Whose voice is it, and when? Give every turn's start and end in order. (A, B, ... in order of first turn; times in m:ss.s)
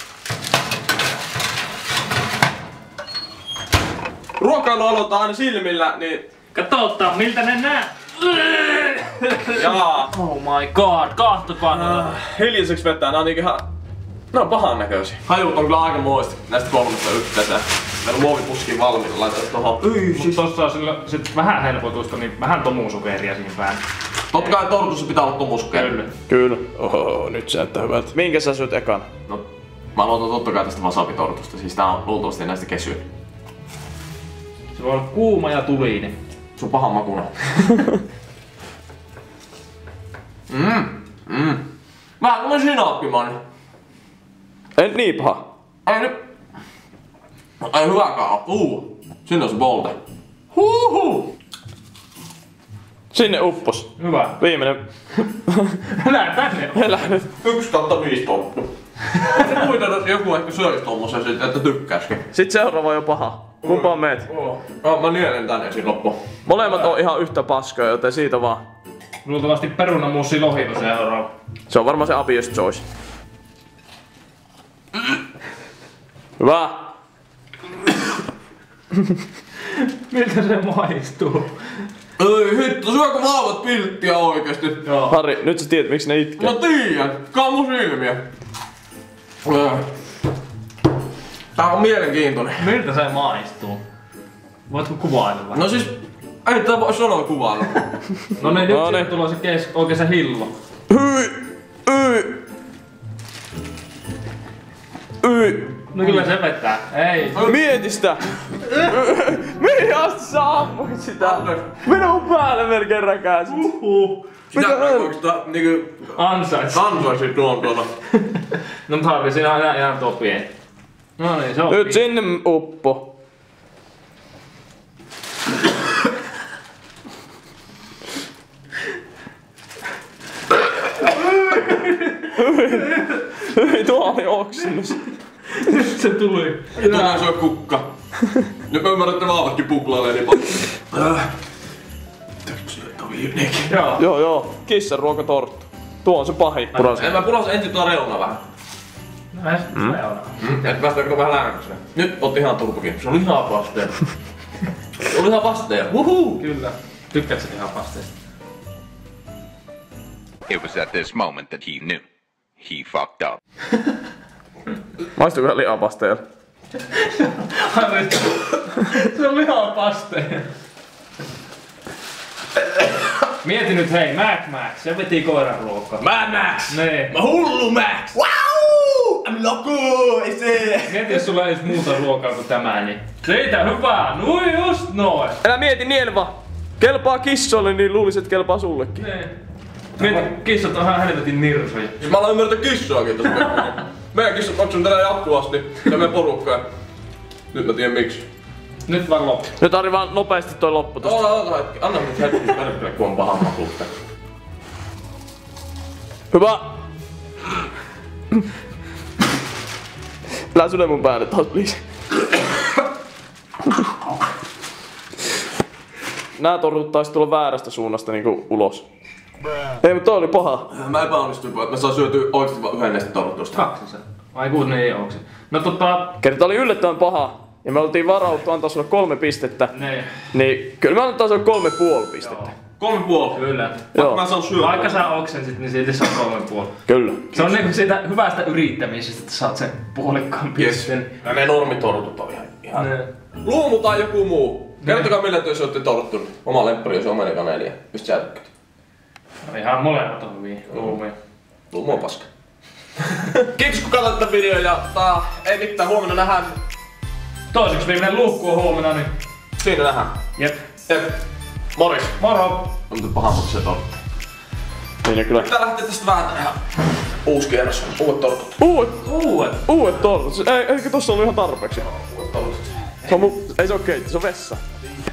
0:04.4-0:06.3 A
0:06.5-0:12.1 B
0:09.6-0:10.1 A
0:11.6-0:13.6 A
0:14.3-0:20.4 A
0:19.9-0:23.8 B
0:24.3-0:26.0 A
0:25.7-0:26.1 B
0:26.3-0:29.1 C
0:29.9-0:33.0 A
0:34.7-0:36.1 B
0:36.6-0:37.8 A
0:40.5-0:41.6 A
0:42.2-0:43.4 A
0:44.8-0:45.4 C
0:45.8-0:46.2 A
0:47.6-0:50.0 A
0:50.5-0:51.3 A
0:53.1-0:54.8 C
0:54.0-0:54.4 B
0:55.5-0:55.8 C
0:55.9-0:57.0 B
0:56.7-0:57.3 C
0:57.3-1:02.2 A
1:02.3-1:04.3 C
1:03.6-1:06.2 A
1:06.4-1:08.6 C
1:06.6-1:06.9 B
1:09.2-1:11.3 B
1:11.7-1:12.8 C
1:16.4-1:16.9 C
1:19.8-1:21.5 B
1:22.2-1:24.9 A
1:24.8-1:25.1 B
1:25.1-1:26.6 C
1:26.4-1:28.2 A
1:29.4-1:29.8 A
1:31.6-1:32.7 A
1:32.6-1:33.8 B
1:34.7-1:35.6 B
1:35.5-1:37.8 A
1:38.4-1:40.5 B
1:38.5-1:39.1 C
1:40.9-1:42.4 C
1:45.2-1:46.2 C
1:45.9-1:47.4 B
1:47.3-1:47.6 A
1:47.4-1:53.7 C
1:51.2-1:51.7 A
1:53.5-1:54.2 B
1:54.5-1:55.1 C
1:54.5-1:56.2 A
1:56.1-1:57.1 B
1:56.7-1:57.9 A
1:58.3-2:00.5 B
2:01.2-2:02.0 B
2:01.7-2:03.1 C
2:11.0-2:13.9 B
2:12.3-2:15.0 C
2:15.5-2:17.3 B
2:16.8-2:17.8 A
2:18.7-2:21.3 A
2:22.4-2:23.8 A
2:23.7-2:24.0 B
2:24.0-2:27.2 C
2:26.8-2:27.0 B
2:26.9-2:28.4 A
2:29.3-2:30.3 B
2:30.4-2:34.0 A
2:35.1-2:36.3 A
2:36.0-2:38.1 B
2:40.5-2:42.0 D
2:42.6-2:43.4 D
2:45.2-2:46.2 C
2:46.9-2:50.5 B
2:53.4-2:56.0 B
2:56.0-3:01.2 A
2:56.7-2:57.1 B
3:00.8-3:05.4 B
3:05.4-3:09.0 C
3:09.0-3:09.3 B
3:10.0-3:12.0 B
3:12.0-3:16.6 A
3:17.5-3:18.2 A
3:18.9-3:19.5 B
3:19.6-3:21.4 C
3:21.0-3:23.9 A
3:26.3-3:26.7 C
3:30.5-3:31.8 C
3:36.4-3:38.8 C
3:39.8-3:40.7 C
3:40.7-3:43.6 A
3:43.5-3:46.2 B
3:46.2-3:49.7 C
3:49.7-3:50.1 B
3:50.3-3:52.5 C
3:52.2-3:52.5 B
3:52.8-3:53.4 A
3:53.3-3:53.8 B
3:53.9-3:55.0 A
3:53.9-3:54.2 C
3:54.5-3:56.7 B
3:56.9-3:57.4 C
3:57.3-4:01.1 B
4:00.6-4:08.5 A
4:02.7-4:03.1 B
4:04.8-4:05.1 B
4:09.4-4:11.1 B
4:10.7-4:11.0 A
4:11.7-4:12.2 A
4:13.2-4:16.6 A
4:17.5-4:19.1 B
4:19.6-4:20.2 A
4:20.9-4:21.2 A
4:21.8-4:22.2 A
4:22.2-4:22.7 B
4:22.9-4:24.0 A
4:25.0-4:25.5 C
4:25.3-4:26.6 A
4:27.2-4:28.6 A
4:28.6-4:29.0 C
4:29.0-4:29.6 B
4:29.6-4:31.9 C
4:31.9-4:33.0 A
4:33.0-4:34.6 C